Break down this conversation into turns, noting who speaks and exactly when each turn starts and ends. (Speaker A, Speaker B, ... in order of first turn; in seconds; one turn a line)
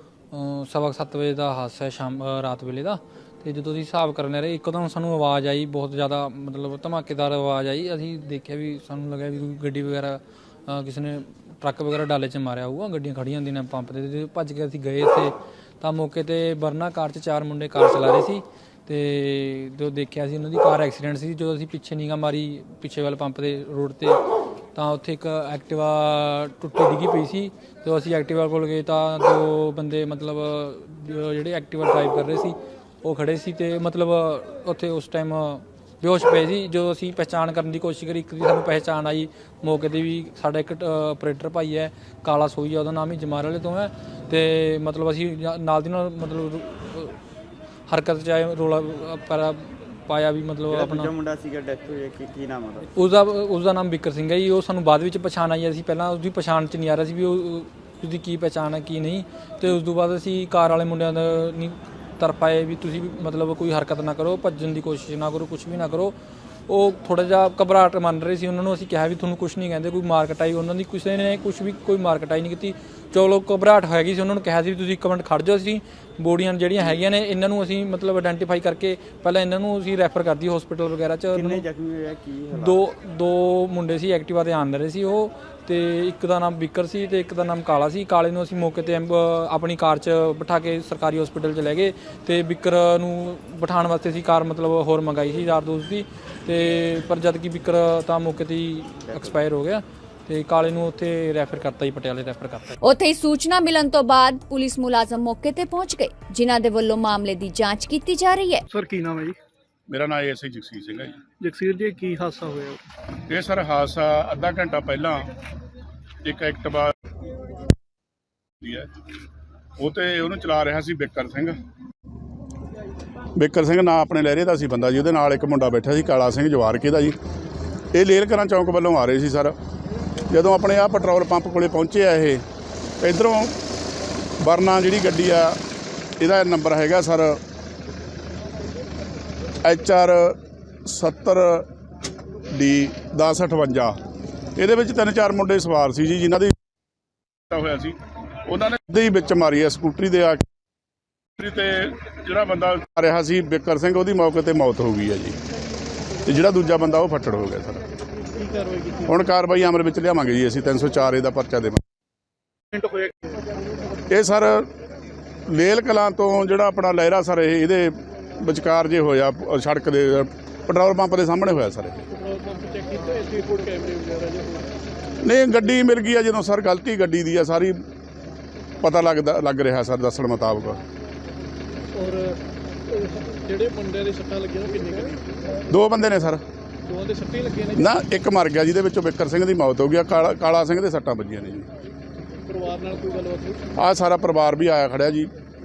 Speaker A: 0.3-24.2
Speaker A: 24.7-47.2
Speaker A: 47.9-51.1
Speaker B: 50.7-52.9
Speaker A: 52.9-66.2
Speaker A: 66.7-81.6
Speaker B: 81.3-82.8
Speaker A: 82.5-102.7
Speaker B: 99.0-99.4
Speaker C: 102.8-108.6
Speaker D: 108.7-109.4
Speaker E: 109.9-111.2
Speaker D: 111.4-112.8
Speaker E: 113.3-115.3
Speaker E: 116.2-116.9
Speaker E: 118.6-119.0
Speaker E: 119.8-121.5
Speaker E: 123.4-127.1
Speaker E: 127.9-129.5
Speaker E: 130.3-132.4
Speaker E: 133.0-133.5
Speaker E: 134.4-135.6
Speaker E: 136.2-137.4
Speaker E: 139.6-141.7
Speaker E: 142.5-143.9
Speaker E: 144.6-146.5
Speaker E: 147.5-147.9
Speaker E: 148.4-150.4
Speaker E: 151.4-155.4
Speaker E: 156.2-157.8
Speaker D: 158.3-159.1
Speaker E: 159.1-161.8
Speaker D: 162.7-163.3
Speaker E: 164.1-164.7
Speaker E: 165.5-172.0
Speaker D: 172.1-174.7
Speaker E: 175.2-177.8
Speaker E: 178.8-180.8
Speaker D: 181.9-182.4
Speaker D: 182.9-185.3
Speaker E: 185.7-186.4
Speaker D: 186.9-187.8
Speaker E: 187.8-191.7
Speaker D: 192.4-193.6
Speaker E: 193.8-195.3